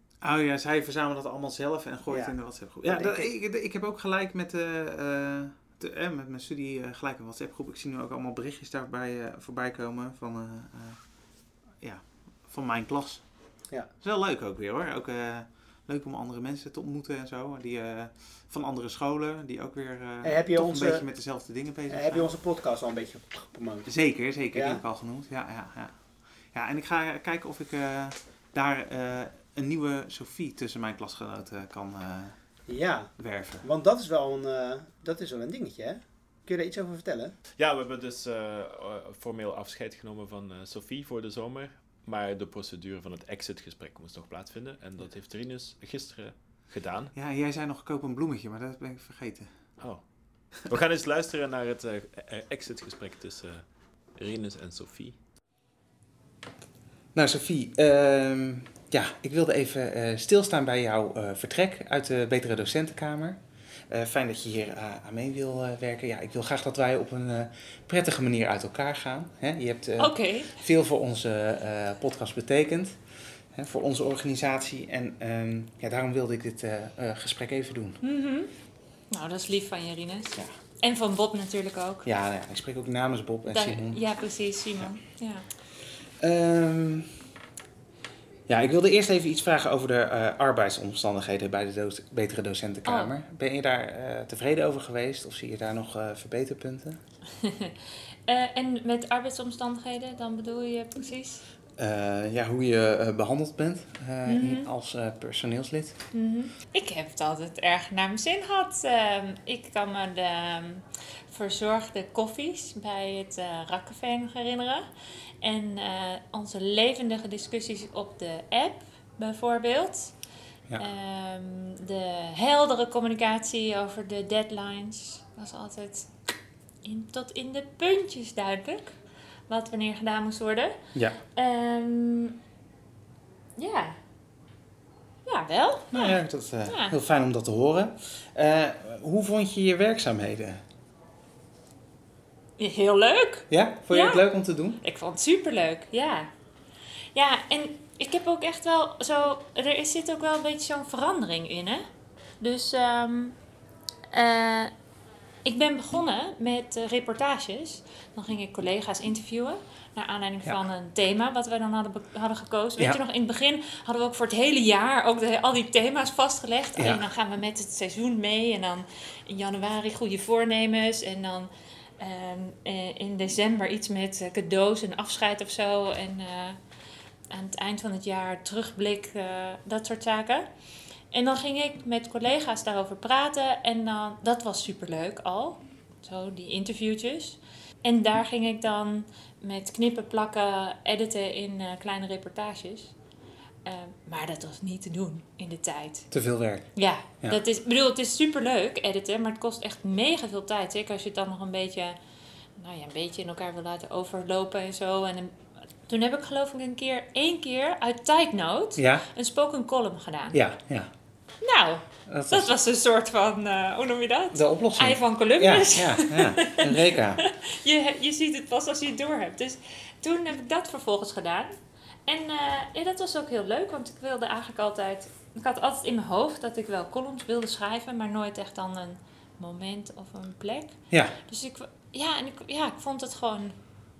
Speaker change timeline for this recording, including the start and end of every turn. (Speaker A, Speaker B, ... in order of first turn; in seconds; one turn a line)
Speaker A: 0.2-22.3
Speaker B: 2.1-3.3
Speaker B: 20.2-21.1
Speaker B: 21.9-24.8
Speaker A: 23.9-32.7
Speaker B: 32.7-37.3
Speaker A: 33.2-33.6
Speaker C: 37.6-47.1
Speaker A: 47.1-49.8
Speaker C: 49.8-55.2
Speaker A: 57.1-78.0
Speaker D: 70.0-70.5
Speaker D: 78.0-78.5
Speaker D: 79.1-82.0
Speaker A: 82.0-84.1
Speaker D: 83.5-85.4
Speaker A: 86.2-87.2
Speaker A: 88.5-97.0
Speaker D: 92.8-93.1
Speaker D: 97.4-97.7
Speaker D: 98.3-101.5
Speaker A: 101.8-106.1
Speaker D: 104.2-104.7
Speaker D: 106.1-114.8
Speaker D: 115.4-120.2
Speaker D: 120.8-126.1
Speaker D: 126.8-129.0
Speaker D: 129.5-130.8
Speaker A: 130.9-131.2
Speaker D: 131.3-132.4
Speaker D: 133.6-134.0
Speaker D: 135.2-136.9
Speaker A: 135.9-140.6
Speaker D: 142.6-144.3
Speaker A: 143.5-144.8
Speaker D: 144.8-146.3
Speaker D: 147.1-151.8
Speaker D: 152.4-153.4
Speaker D: 154.1-154.7
Speaker D: 155.4-176.6
Speaker A: 166.8-167.0
Speaker D: 177.3-180.5
Speaker D: 181.1-193.0
Speaker D: 193.6-201.9
Speaker A: 196.1-197.4
Speaker D: 202.6-210.4
Speaker A: 208.8-209.1
Speaker A: 210.3-210.9
Speaker D: 211.4-216.7
Speaker A: 212.1-212.5
Speaker A: 214.3-217.2
Speaker D: 217.5-221.5
Speaker D: 222.1-233.5
Speaker A: 230.9-231.2